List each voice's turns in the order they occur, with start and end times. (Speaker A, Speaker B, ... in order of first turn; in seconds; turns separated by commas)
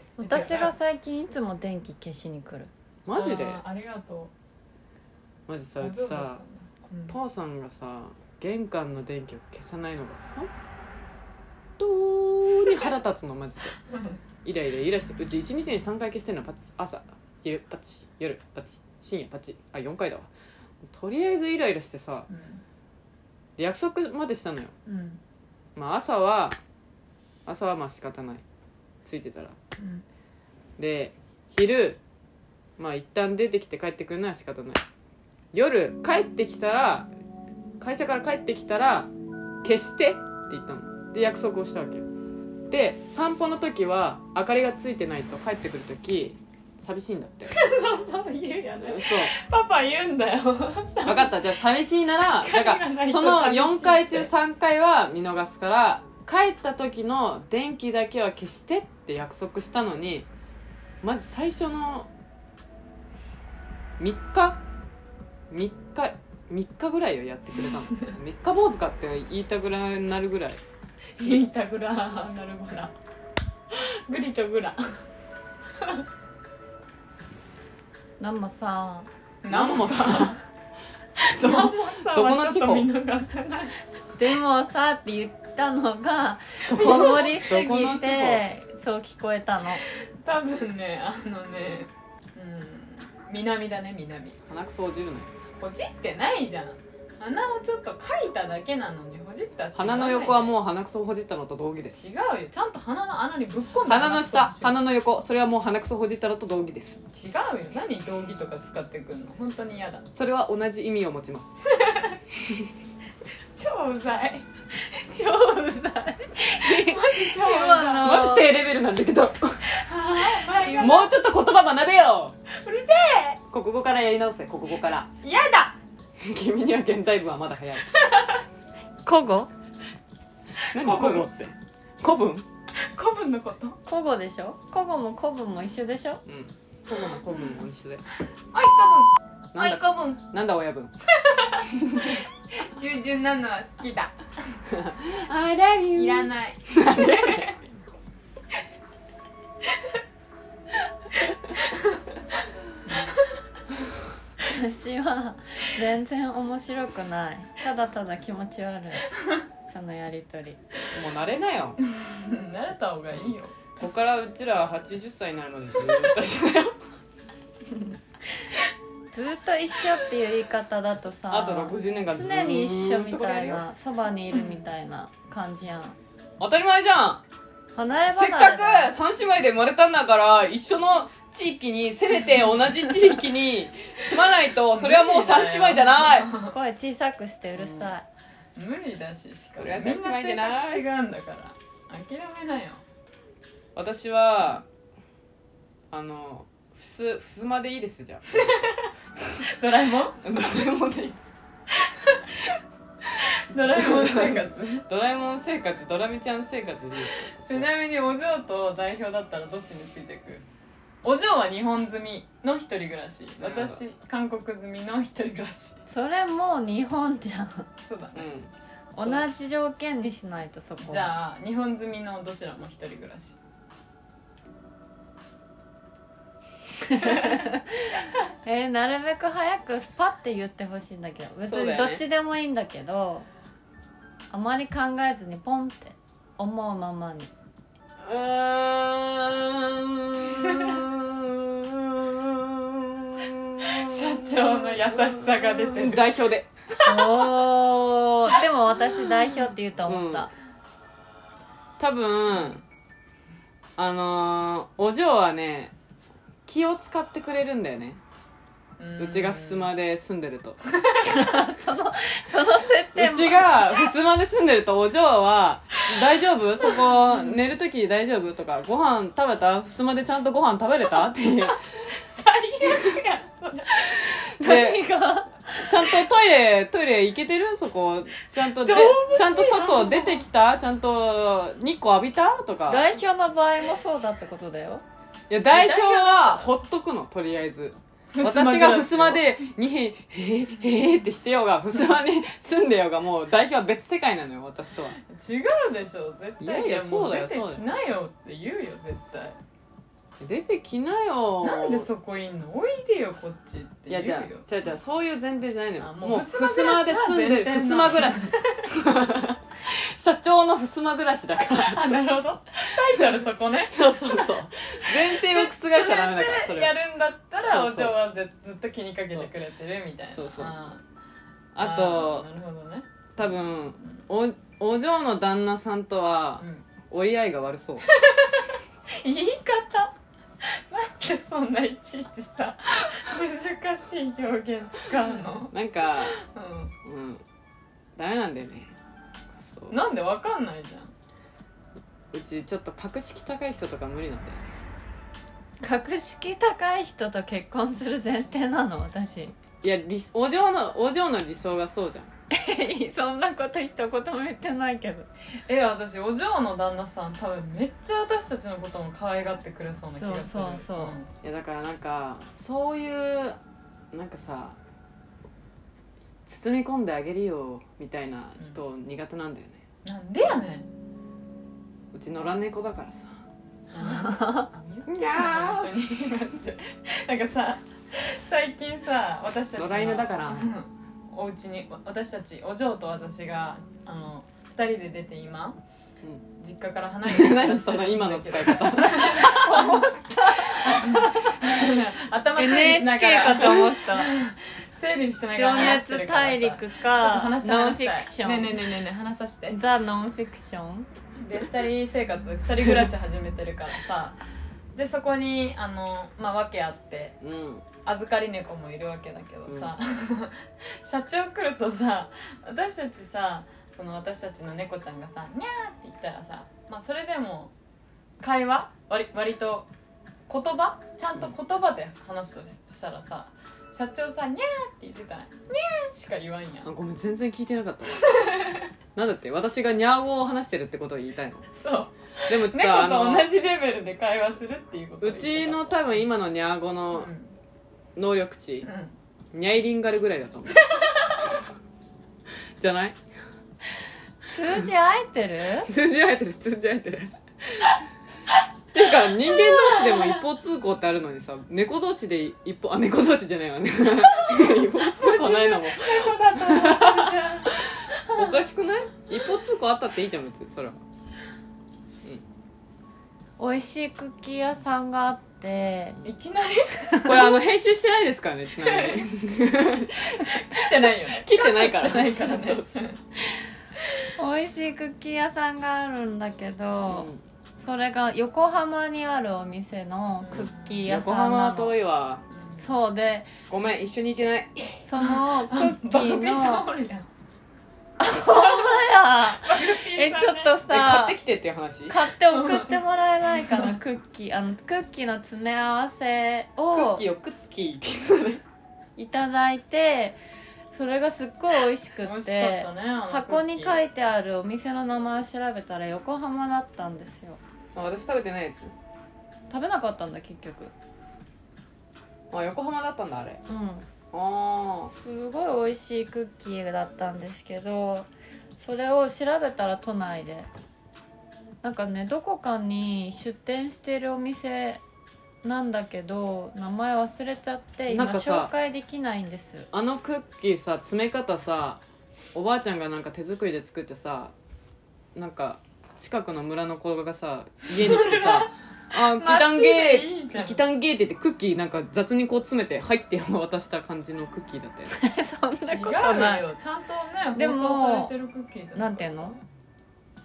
Speaker A: 0.2-0.7, Speaker B: 0.2-2.7, Speaker C: 3.0-3.6, Speaker A: 3.1-4.3, Speaker C: 5.5-6.4, Speaker A: 5.8-7.2, Speaker C: 7.1-10.5, Speaker C: 11.8-13.8, Speaker A: 13.9-14.2, Speaker C: 14.4-20.3, Speaker C: 20.9-22.3, Speaker A: 22.3-22.6, Speaker C: 23.6-24.7, Speaker A: 24.9-25.2, Speaker C: 25.8-26.6, Speaker C: 27.5-28.4, Speaker C: 29.1-29.6, Speaker A: 29.8-30.1, Speaker C: 30.8-32.0, Speaker C: 32.8-34.8, Speaker C: 35.5-37.1, Speaker C: 37.8-39.1, Speaker C: 39.6-42.1, Speaker C: 42.7-47.6, Speaker A: 47.5-51.4, Speaker C: 48.8-49.3, Speaker C: 51.1-60.3, Speaker A: 52.3-54.3, Speaker C: 61.0-62.1, Speaker C: 64.0-64.6, Speaker C: 65.5-70.6, Speaker A: 71.2-72.9, Speaker A: 73.7-75.0, Speaker A: 75.8-76.0, Speaker B: 78.2-79.1, Speaker A: 79.4-80.4, Speaker C: 79.5-80.4, Speaker C: 81.2-82.9, Speaker A: 81.3-83.8, Speaker B: 84.2-89.8, Speaker C: 86.7-88.4, Speaker A: 89.9-94.4, Speaker C: 94.5-95.3, Speaker A: 95.5-100.6, Speaker C: 99.8-102.0, Speaker A: 102.0-104.8, Speaker C: 103.9-107.0, Speaker A: 107.1-110.1, Speaker C: 110.2-111.5, Speaker A: 111.7-112.2, Speaker A: 113.5-114.5, Speaker A: 115.0-115.7, Speaker B: 115.1-118.6, Speaker A: 116.4-118.3, Speaker C: 117.4-119.6, Speaker A: 119.7-121.1, Speaker C: 120.8-122.3, Speaker A: 122.5-123.4, Speaker C: 123.5-125.1, Speaker A: 125.2-125.8, Speaker C: 126.2-127.9, Speaker A: 127.9-128.4, Speaker B: 129.0-129.5, Speaker C: 130.7-132.5, Speaker A: 130.7-131.3, Speaker A: 132.9-133.8, Speaker B: 133.9-136.2, Speaker C: 136.3-138.1, Speaker A: 138.5-140.2, Speaker C: 139.5-140.9, Speaker A: 141.2-144.6, Speaker C: 141.8-142.2, Speaker C: 144.7-147.5, Speaker A: 145.9-147.7, Speaker A: 151.5-151.9, Speaker A: 152.8-153.3, Speaker B: 154.4-159.1, Speaker B: 159.7-160.6, Speaker C: 160.9-161.8, Speaker A: 161.8-163.6, Speaker C: 163.1-166.8, Speaker B: 169.1-176.0, Speaker C: 171.3-173.7, Speaker C: 176.4-177.2, Speaker B: 177.8-178.9, Speaker C: 178.1-186.3, Speaker A: 184.7-186.6, Speaker B: 186.4-188.1, Speaker A: 187.6-187.9, Speaker A: 188.6-192.8, Speaker C: 189.6-190.9, Speaker C: 193.8-194.7, Speaker C: 195.9-198.6, Speaker A: 198.3-198.9, Speaker A: 199.5-200.2, Speaker C: 200.2-201.2, Speaker A: 201.8-202.3, Speaker A: 203.2-204.8, Speaker C: 203.7-207.7, Speaker A: 207.2-210.4, Speaker A: 211.0-215.8, Speaker C: 213.4-213.8, Speaker B: 215.9-217.7, Speaker A: 217.8-218.3, Speaker C: 218.2-219.3, Speaker B: 218.9-221.1, Speaker A: 220.8-223.4, Speaker B: 226.8-233.3, Speaker C: 231.4-232.0, Speaker B: 234.3-237.3, Speaker C: 238.0-246.9, Speaker A: 243.6-246.1, Speaker B: 246.9-250.3, Speaker C: 249.9-250.3, Speaker C: 251.8-252.6, Speaker C: 253.8-255.7, Speaker C: 256.5-258.0, Speaker A: 258.8-259.7, Speaker C: 259.0-260.6, Speaker A: 260.8-261.2, Speaker B: 261.0-263.6, Speaker C: 262.9-271.6, Speaker A: 271.7-273.9, Speaker C: 273.9-274.9, Speaker B: 274.4-276.0, Speaker C: 275.6-282.9, Speaker A: 278.4-280.3, Speaker B: 282.7-284.8, Speaker C: 285.3-295.0, Speaker A: 285.5-286.5, Speaker A: 288.1-289.2, Speaker A: 295.0-299.4, Speaker C: 296.4-297.6, Speaker C: 300.2-301.9, Speaker A: 301.4-304.5, Speaker C: 303.9-312.1, Speaker A: 305.8-308.7, Speaker A: 311.5-320.8, Speaker C: 312.9-316.8, Speaker C: 317.4-318.0, Speaker C: 320.1-320.6, Speaker C: 321.6-322.3, Speaker A: 321.6-322.9, Speaker C: 323.2-327.9, Speaker A: 326.4-326.7, Speaker A: 327.9-336.7, Speaker C: 335.5-336.2, Speaker C: 336.8-337.2, Speaker C: 338.0-338.7, Speaker C: 339.4-339.8, Speaker A: 339.7-340.9, Speaker C: 342.1-344.5, Speaker B: 345.6-349.4, Speaker C: 349.6-352.1, Speaker B: 352.3-355.1, Speaker A: 355.5-361.1, Speaker B: 359.9-361.0, Speaker C: 361.2-363.4, Speaker C: 363.9-364.6, Speaker C: 366.3-369.6, Speaker A: 369.8-370.7, Speaker C: 371.9-373.1, Speaker A: 373.7-385.6, Speaker C: 374.9-375.7, Speaker C: 379.6-380.5, Speaker A: 386.4-389.9, Speaker C: 387.1-389.8, Speaker B: 389.2-391.4, Speaker A: 390.5-399.6, Speaker B: 392.4-394.2, Speaker B: 395.3-398.7, Speaker B: 399.5-400.9, Speaker A: 401.2-404.2, Speaker A: 404.7-407.2, Speaker C: 407.2-407.6, Speaker A: 407.8-417.5, Speaker C: 409.5-409.7, Speaker A: 418.2-419.7, Speaker A: 420.3-426.7, Speaker C: 426.6-428.2, Speaker A: 428.0-428.7, Speaker C: 428.9-431.5, Speaker A: 431.6-436.1, Speaker C: 432.3-433.3, Speaker C: 435.0-437.1, Speaker A: 436.9-437.4, Speaker C: 438.0-438.7, Speaker A: 438.6-438.9, Speaker C: 439.3-440.7, Speaker A: 440.5-441.2, Speaker C: 442.6-443.0, Speaker B: 444.3-445.7, Speaker C: 445.7-447.8, Speaker C: 448.7-460.8, Speaker A: 449.3-450.1, Speaker A: 454.0-458.4, Speaker B: 463.4-466.0, Speaker A: 466.0-467.2, Speaker C: 467.0-472.7, Speaker B: 467.1-467.4, Speaker A: 468.6-469.0, Speaker A: 470.3-473.0, Speaker B: 474.2-481.8, Speaker C: 476.9-477.2, Speaker A: 480.2-480.8, Speaker C: 480.3-482.3, Speaker A: 482.3-482.7, Speaker B: 482.6-483.3, Speaker C: 483.5-484.6, Speaker B: 484.9-486.7, Speaker A: 485.0-487.1, Speaker B: 488.0-491.2, Speaker A: 488.2-488.8, Speaker A: 489.4-490.6, Speaker C: 490.7-492.0, Speaker B: 491.9-497.0, Speaker A: 492.3-492.8, Speaker C: 496.7-498.4, Speaker B: 499.0-500.2, Speaker B: 500.7-507.4, Speaker A: 502.0-503.8, Speaker C: 507.8-508.8, Speaker B: 509.5-510.7, Speaker C: 512.3-513.4, Speaker B: 513.5-513.9, Speaker C: 514.1-514.9, Speaker B: 514.9-520.5, Speaker B: 521.6-524.8, Speaker B: 525.4-529.7, Speaker C: 527.9-528.5, Speaker C: 529.7-531.8, Speaker C: 532.4-534.3, Speaker C: 535.1-545.0, Speaker A: 537.8-538.5, Speaker A: 539.1-540.6, Speaker B: 544.9-546.5, Speaker A: 545.6-549.4, Speaker B: 547.3-548.1, Speaker B: 548.8-549.4